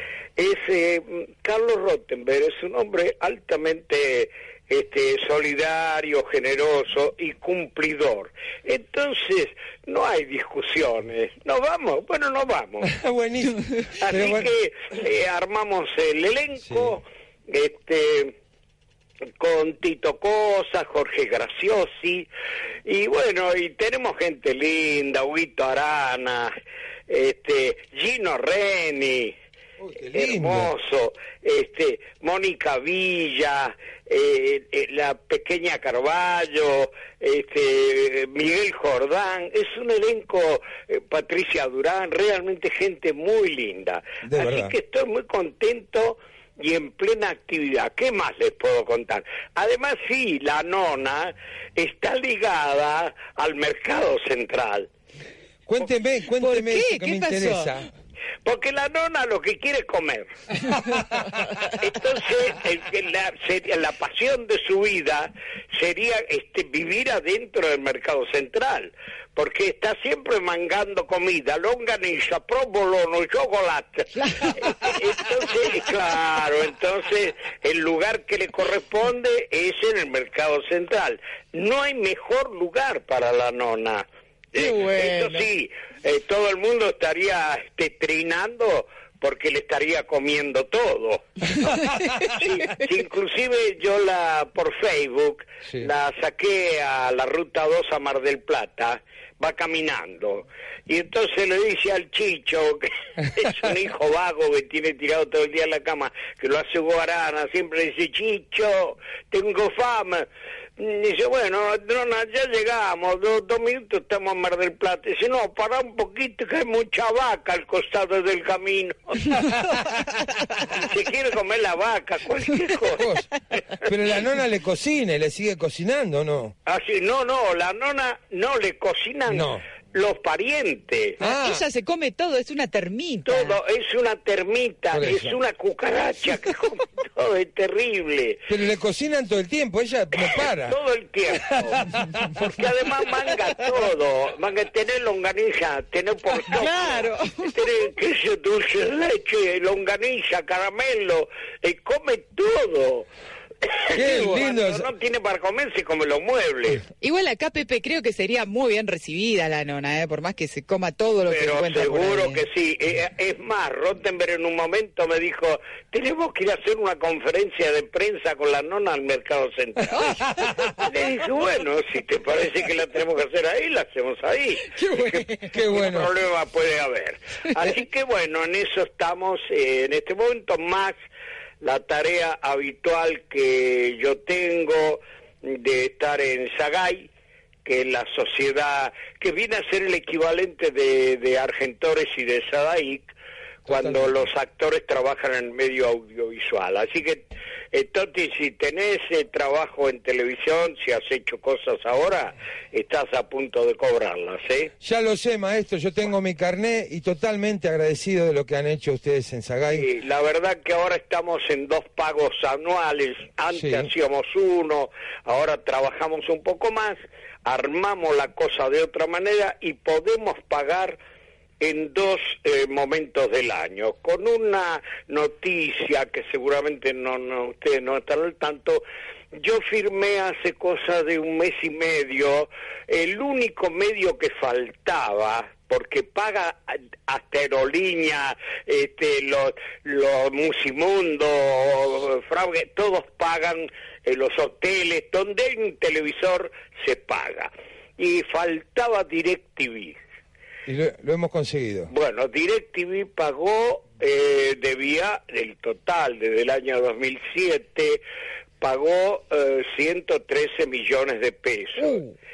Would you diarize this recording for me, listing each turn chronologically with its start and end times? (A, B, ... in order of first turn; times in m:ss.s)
0:00.4-0:12.9 A
0:12.8-0:14.5 B
0:13.9-0:18.4 A
0:16.7-0:16.9 B
0:19.4-0:22.3 A
0:22.8-0:26.5 A
0:27.1-0:29.3 A
0:29.8-0:30.7 B
0:30.1-0:54.9 A
0:44.2-0:44.8 B
0:55.7-0:57.9 B
0:56.3-0:57.8 C
0:58.4-1:00.3 A
1:00.7-1:01.4 C
1:01.8-1:31.5 A
1:14.3-1:14.8 C
1:24.5-1:25.5 C
1:31.6-1:32.3 C
1:32.3-1:59.5 A
2:00.7-2:03.6 A
2:03.0-2:03.3 B
2:03.8-2:06.5 B
2:06.7-2:11.2 A
2:09.3-2:09.6 B
2:11.2-2:11.6 B
2:11.2-2:13.6 C
2:13.3-2:18.5 A
2:14.9-2:15.4 B
2:18.5-2:20.8 B
2:20.2-2:33.1 A
2:21.4-2:22.1 B
2:26.5-2:27.5 C
2:33.6-2:36.8 A
2:33.9-2:34.9 B
2:34.1-2:34.4 C
2:37.0-2:42.4 C
2:41.3-2:50.0 A
2:49.9-2:50.9 C
2:50.8-3:01.0 A
2:54.7-2:55.6 C
2:55.5-2:56.1 B
3:01.6-3:07.1 A
3:07.6-3:13.1 A
3:13.7-3:24.7 A
3:13.7-3:14.2 B
3:24.8-3:29.9 B
3:29.7-3:41.0 A
3:33.5-3:33.9 B
3:41.6-3:48.8 A
3:49.3-4:10.0 A
4:10.7-4:11.9 B
4:11.9-4:18.0 A
4:18.6-4:22.0 A
4:21.8-4:22.1 C